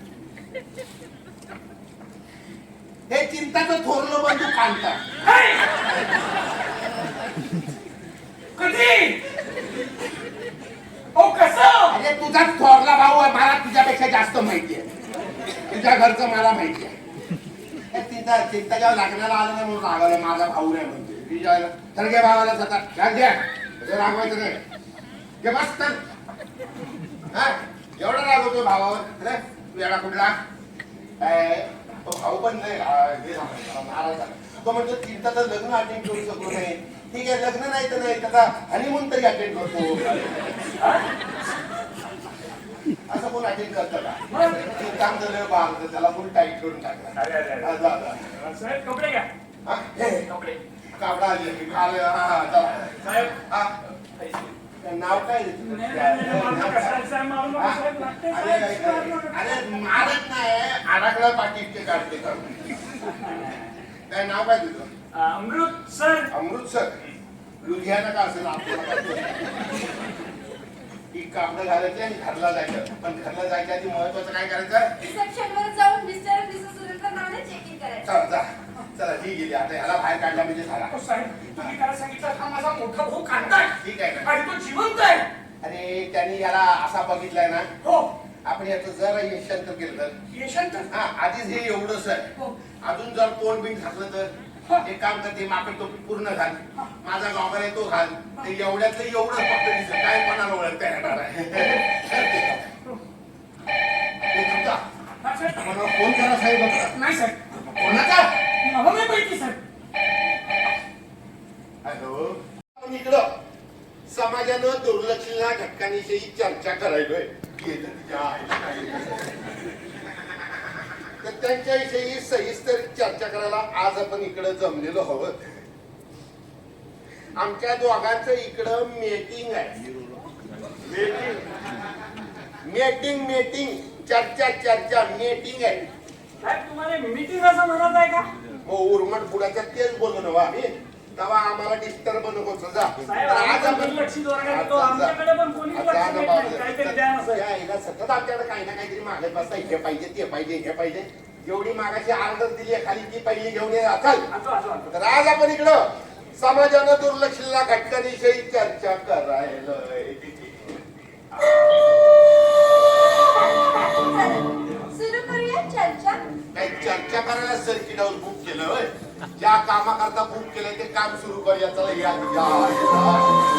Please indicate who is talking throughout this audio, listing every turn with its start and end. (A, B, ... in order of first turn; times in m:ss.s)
0:03.1-0:05.0 A
0:05.2-0:05.7 B
0:08.6-0:09.2 B
0:11.1-0:12.0 B
0:11.9-0:14.9 A
0:15.7-0:16.9 A
0:17.9-0:24.6 A
0:25.4-0:26.0 A
0:27.3-0:30.4 A
0:31.2-0:40.5 A
0:40.8-0:41.0 B
0:43.1-0:48.3 A
0:44.3-0:44.6 B
0:47.2-0:49.3 B
0:49.6-0:50.3 A
0:50.3-0:50.6 B
0:51.0-0:53.7 A
0:53.0-0:53.4 B
0:54.8-0:57.0 A
0:55.6-0:59.7 B
0:57.5-1:02.5 A
1:03.3-1:03.5 B
1:04.1-1:04.9 A
1:05.1-1:06.3 B
1:06.3-1:07.0 A
1:07.6-1:09.4 A
1:11.1-1:14.9 A
1:15.0-1:18.2 C
1:18.0-1:21.0 A
1:20.9-1:25.3 B
1:23.6-1:24.3 A
1:25.6-1:27.7 A
1:27.8-1:28.1 B
1:28.4-1:30.2 A
1:30.3-1:30.9 B
1:30.9-1:32.3 A
1:32.8-1:42.7 A
1:44.3-1:44.8 A
1:45.2-1:45.6 B
1:45.5-1:47.0 A
1:46.9-1:47.5 B
1:47.7-1:48.4 A
1:48.6-1:49.6 B
1:51.8-1:53.2 A
1:54.1-1:59.2 A
2:01.2-2:05.5 A
2:07.3-2:09.8 A
2:11.0-2:11.3 B
2:12.6-2:15.8 A
2:16.4-2:18.3 B
2:18.6-2:25.2 A
2:23.0-2:27.4 B
2:25.7-2:34.2 A
2:34.3-2:34.9 B
2:34.9-2:40.8 A
2:43.3-2:46.2 C
2:46.5-2:53.4 A